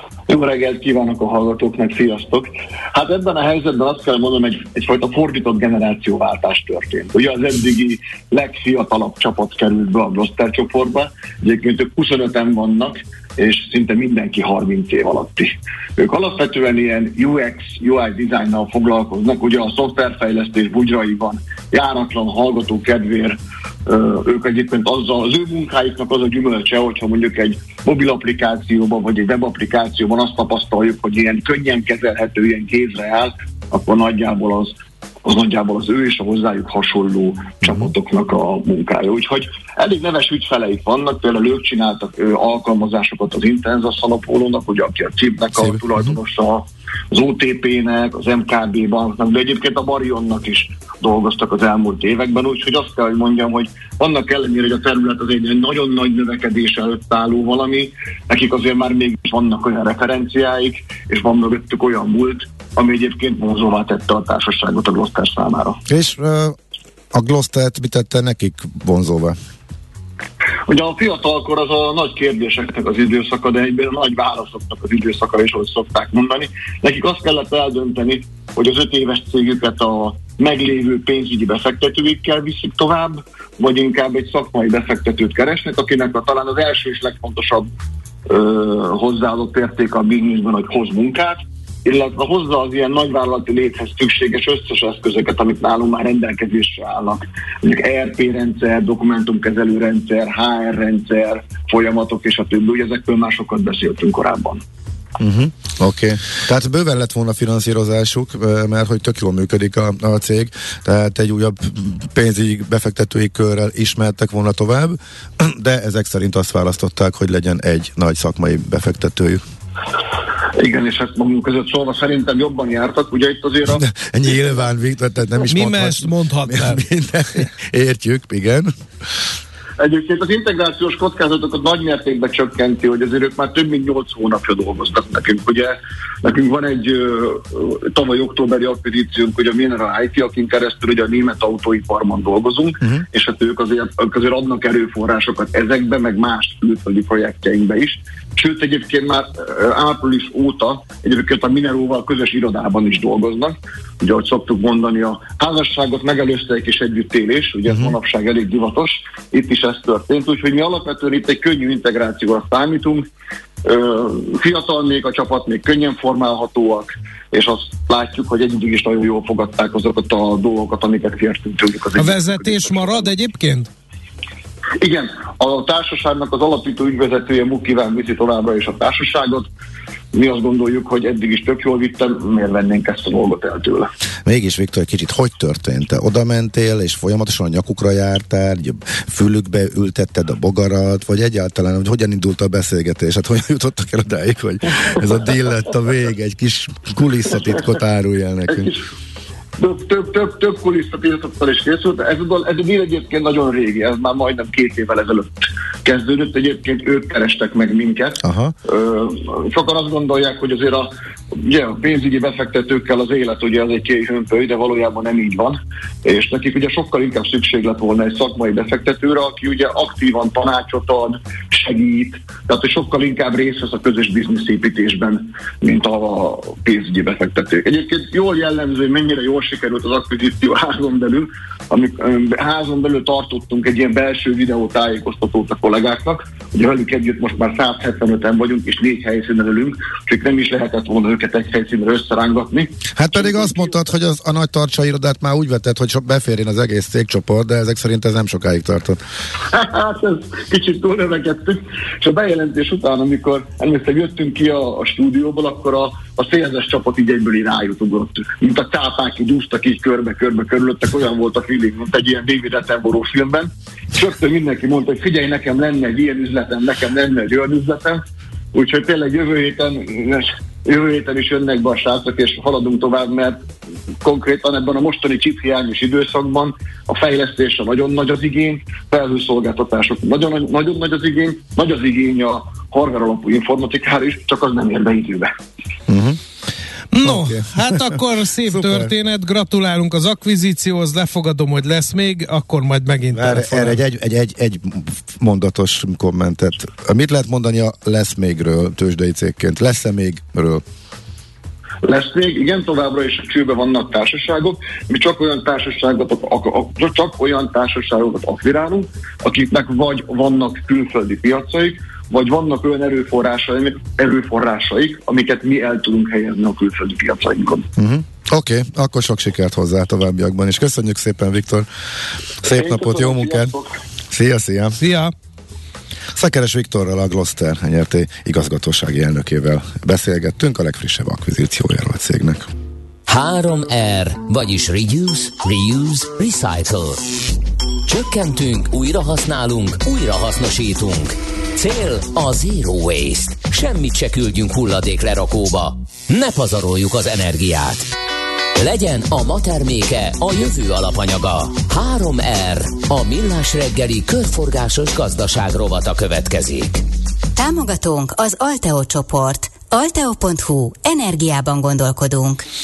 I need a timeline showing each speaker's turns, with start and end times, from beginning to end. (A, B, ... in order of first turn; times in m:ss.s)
0:00.3-1:05.8 A
1:05.9-1:06.6 B
1:07.1-1:09.4 B
1:10.7-1:27.7 A
1:28.3-1:44.6 A
1:45.2-1:59.4 B
2:00.5-2:03.8 A
2:03.7-2:08.7 B
2:05.5-2:06.8 C
2:09.8-2:43.0 A
2:43.6-2:53.1 A
2:52.0-2:53.7 C
2:54.8-2:59.5 A
3:00.1-3:03.9 A
3:04.2-3:18.7 B
3:18.5-3:18.8 A
3:19.6-3:30.9 A
3:28.2-3:28.5 B
3:31.4-4:03.7 A
4:02.9-4:09.0 B
4:09.5-4:28.0 A
4:28.5-4:33.4 A
4:34.0-4:45.3 A
4:45.9-4:46.2 B
4:46.9-4:53.8 C
4:47.0-4:47.8 B
4:48.4-4:48.9 B
4:53.1-5:00.6 B
5:01.8-5:17.7 A
5:17.8-5:21.7 B
5:22.4-5:23.5 B
5:22.4-5:23.7 A
5:24.1-5:24.8 B
5:24.8-5:25.1 C
5:26.1-5:32.5 B
5:33.1-5:37.0 D
5:37.8-5:47.9 D
5:48.6-5:56.8 D
5:57.4-6:02.4 E